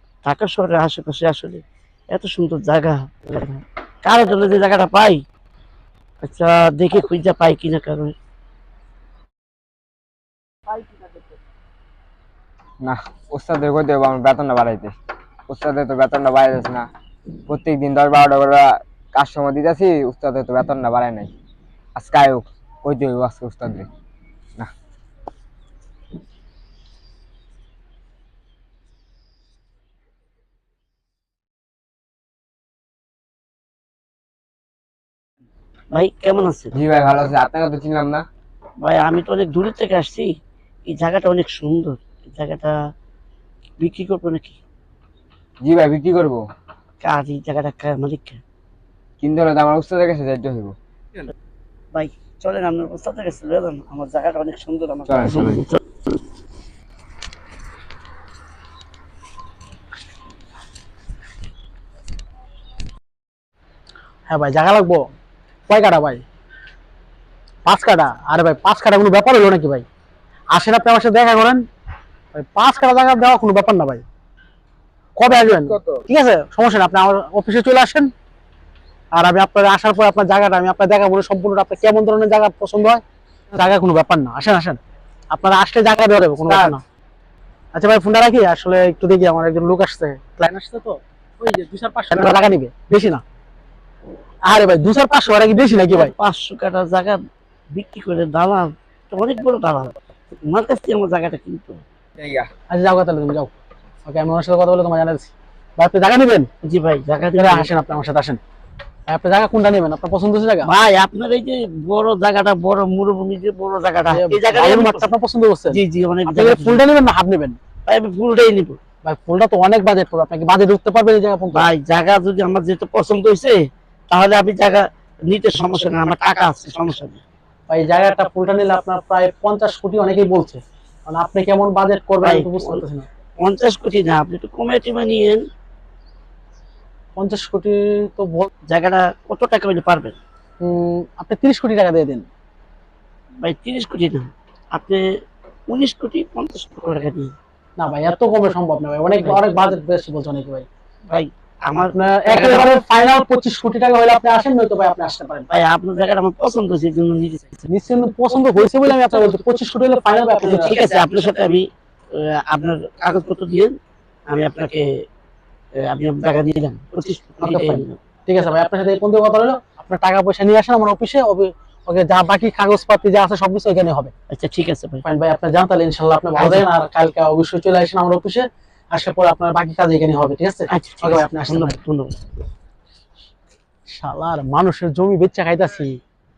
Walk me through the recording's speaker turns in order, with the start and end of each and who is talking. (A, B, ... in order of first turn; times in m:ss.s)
0:00.2-0:05.2 A
0:06.2-0:08.2 A
0:12.8-0:14.9 B
0:15.5-0:16.9 B
0:17.5-0:21.3 B
0:22.0-0:23.9 B
0:35.9-0:36.7 A
0:36.7-0:38.2 B
0:38.8-0:40.3 A
0:40.9-0:42.8 A
0:43.8-0:44.6 A
0:45.6-0:46.4 B
0:47.0-0:48.4 A
0:49.2-0:50.7 B
0:51.9-0:55.8 A
0:55.1-0:55.6 B
1:04.3-1:05.0 C
1:05.7-1:06.2 C
1:07.6-1:09.8 C
1:10.5-1:11.6 C
1:12.3-1:14.0 C
1:15.2-1:18.1 C
1:15.3-1:16.0 B
1:19.1-1:23.0 C
1:23.5-1:24.8 C
1:25.3-1:26.8 C
1:26.5-1:26.8 A
1:27.7-1:33.2 C
1:34.4-1:36.1 C
1:35.7-1:37.2 A
1:37.7-1:41.8 A
1:42.2-1:42.5 B
1:42.7-1:43.5 C
1:44.1-1:46.5 C
1:46.6-1:47.7 A
1:47.4-1:48.4 C
1:49.1-1:50.7 C
1:50.6-1:55.1 A
1:54.1-1:55.8 C
1:55.7-1:56.8 A
1:56.3-1:57.6 C
1:57.9-1:58.8 A
1:59.0-2:01.6 C
2:01.5-2:07.2 A
2:07.7-2:13.1 C
2:12.2-2:12.8 A
2:13.4-2:15.4 A
2:17.2-2:18.5 C
2:18.7-2:20.2 A
2:20.6-2:22.2 C
2:23.4-2:25.0 A
2:25.7-2:27.3 A
2:27.8-2:30.6 C
2:31.1-2:32.7 A
2:31.9-2:35.5 C
2:35.5-2:37.6 A
2:37.7-2:40.7 C
2:40.4-2:43.8 A
2:44.3-2:45.0 A
2:45.8-2:48.0 A
2:47.4-2:54.1 C
2:54.3-2:55.0 A
2:55.0-3:01.7 C
2:56.4-2:56.6 A
3:00.7-3:02.1 A
3:03.9-3:06.0 C